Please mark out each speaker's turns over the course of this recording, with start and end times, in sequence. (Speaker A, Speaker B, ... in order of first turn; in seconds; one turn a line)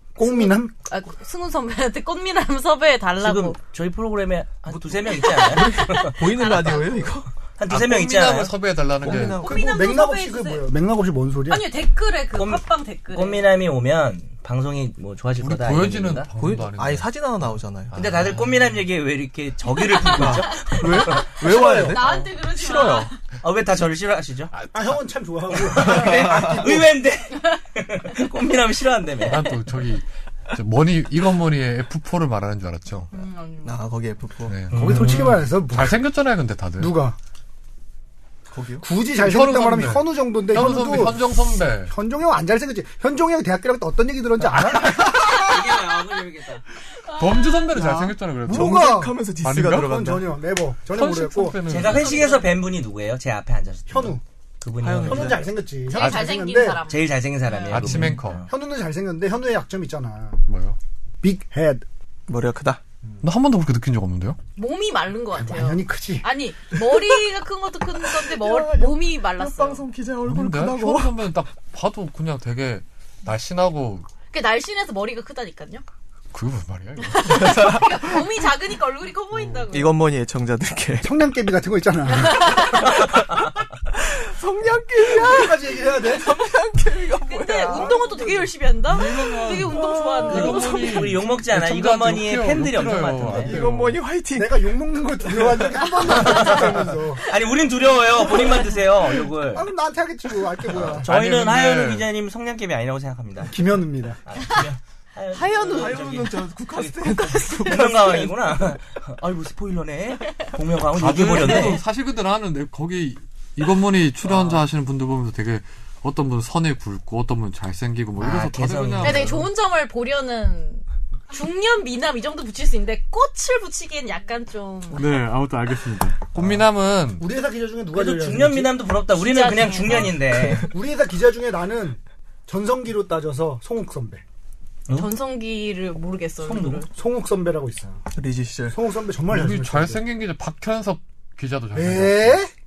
Speaker A: 0.1-0.7
Speaker B: 0.2-3.6
Speaker C: 3.2-6.2
Speaker D: 4.7-7.3
Speaker B: 5.0-7.2
Speaker C: 7.6-8.5
Speaker E: 7.7-9.4
Speaker D: 9.0-9.5
Speaker B: 9.1-10.7
Speaker A: 9.4-11.6
Speaker B: 11.5-13.4
Speaker C: 12.3-16.3
Speaker E: 15.4-17.1
Speaker D: 16.4-17.9
Speaker E: 17.9-18.6
Speaker C: 17.9-21.4
Speaker B: 19.7-23.2
Speaker D: 20.0-23.1
Speaker A: 21.1-22.0
Speaker C: 23.4-24.5
Speaker E: 24.5-25.0
Speaker A: 24.7-26.9
Speaker C: 25.5-29.5
Speaker D: 25.9-26.7
Speaker E: 29.2-33.1
Speaker B: 33.1-33.8
Speaker D: 33.6-34.5
Speaker E: 34.5-37.0
Speaker C: 34.7-35.3
Speaker A: 34.8-36.0
Speaker A: 36.8-37.1
Speaker D: 38.5-38.9
Speaker A: 38.8-45.4
Speaker E: 39.2-41.9
Speaker C: 45.0-46.6
Speaker B: 46.9-47.7
Speaker E: 47.1-50.0
Speaker D: 47.7-50.4
Speaker A: 48.5-49.1
Speaker A: 49.7-51.6
Speaker E: 50.9-52.3
Speaker C: 51.6-55.5
Speaker B: 51.8-52.6
Speaker A: 53.9-54.2
Speaker D: 54.8-55.5
Speaker A: 55.0-56.8
Speaker B: 55.9-58.0
Speaker E: 56.0-56.2
Speaker C: 56.9-58.5
Speaker E: 57.7-58.4
Speaker A: 58.5-60.4
Speaker E: 60.5-60.8
Speaker A: 61.2-61.8
Speaker D: 62.3-62.8
Speaker E: 63.2-64.4
Speaker B: 64.6-69.8
Speaker A: 65.3-66.3
Speaker D: 68.2-71.2
Speaker E: 70.2-74.1
Speaker B: 74.3-75.8
Speaker E: 76.3-77.7
Speaker B: 77.0-80.0
Speaker D: 77.4-77.8
Speaker D: 79.7-81.1
Speaker A: 81.0-82.6
Speaker B: 82.1-83.2
Speaker D: 83.9-88.0
Speaker A: 85.2-86.3
Speaker B: 87.2-91.1
Speaker A: 87.7-88.5
Speaker E: 88.9-94.0
Speaker D: 89.0-90.6
Speaker C: 90.3-93.6
Speaker D: 93.3-95.9
Speaker A: 94.3-97.2
Speaker B: 96.0-96.6
Speaker C: 96.0-99.7
Speaker B: 98.3-98.8
Speaker A: 99.5-101.1
Speaker C: 100.7-103.6
Speaker E: 100.8-102.1
Speaker A: 103.5-104.2
Speaker C: 104.2-111.8
Speaker D: 105.4-108.3
Speaker B: 107.2-107.7
Speaker E: 110.9-119.5
Speaker C: 114.2-114.6
Speaker C: 118.2-119.4
Speaker B: 119.0-125.0
Speaker E: 124.9-127.2
Speaker A: 127.2-128.8
Speaker C: 127.9-130.7
Speaker B: 129.1-130.6
Speaker A: 130.6-134.2
Speaker B: 134.9-136.9
Speaker C: 136.4-136.8
Speaker A: 136.9-138.0
Speaker D: 138.1-138.8
Speaker A: 138.7-140.0
Speaker E: 139.3-142.4
Speaker A: 141.7-142.5